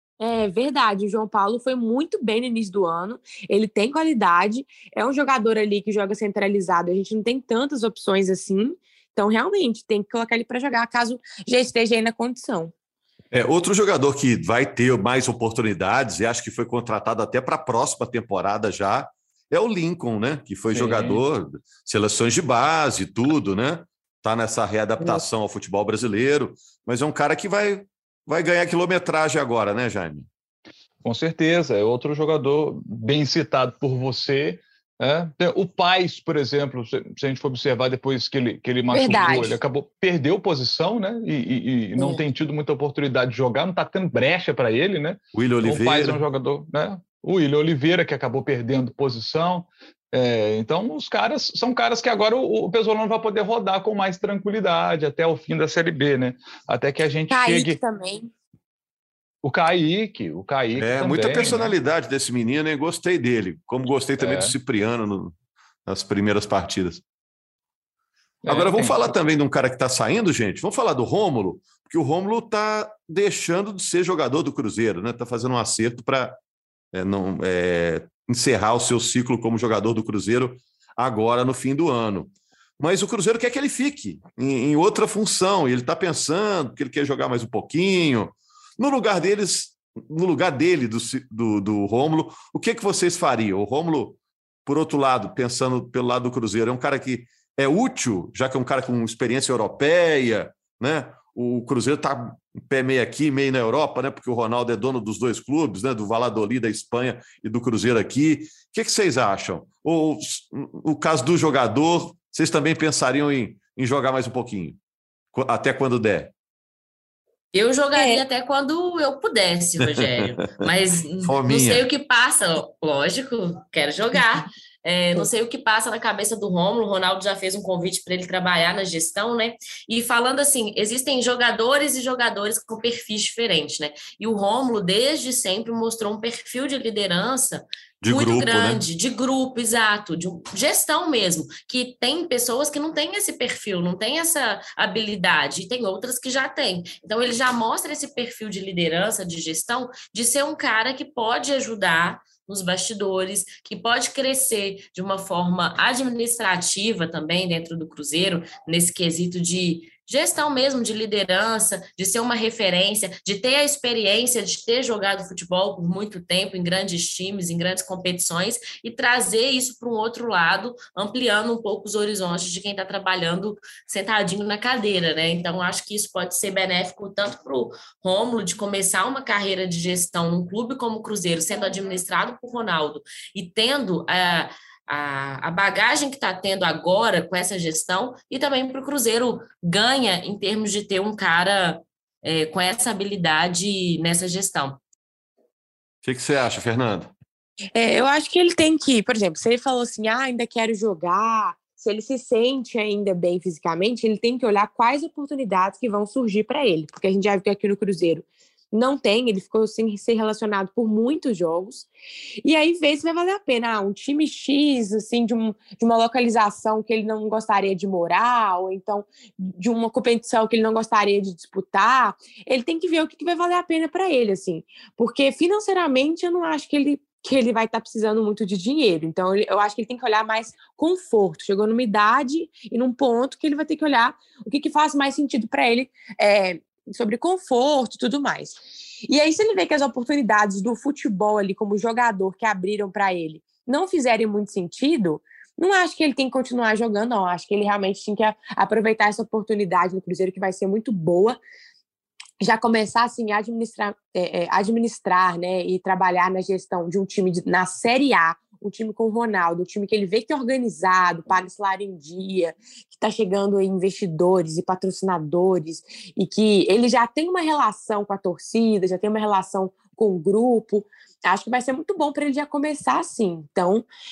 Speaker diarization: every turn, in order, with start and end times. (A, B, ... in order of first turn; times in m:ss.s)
0:00.2-0:12.7 A
0:13.3-0:30.3 B
0:20.7-0:21.2 C
0:31.0-0:57.8 C
0:38.9-0:39.6 A
0:42.0-0:42.2 A
0:45.3-0:46.2 B
0:57.3-0:58.3 A
0:59.4-1:01.7 C
1:00.8-1:07.0 B
1:04.2-1:04.6 C
1:08.4-1:09.1 C
1:08.5-1:16.4 B
1:16.9-1:54.8 B
1:55.3-1:56.3 B
1:57.5-3:14.8 D
1:57.9-1:58.2 A
1:59.8-2:00.3 B
2:01.2-2:01.8 B
2:18.0-2:18.8 B
3:16.0-3:17.1 B
3:17.8-3:31.9 A
3:32.4-4:11.4 A
4:12.4-4:33.9 A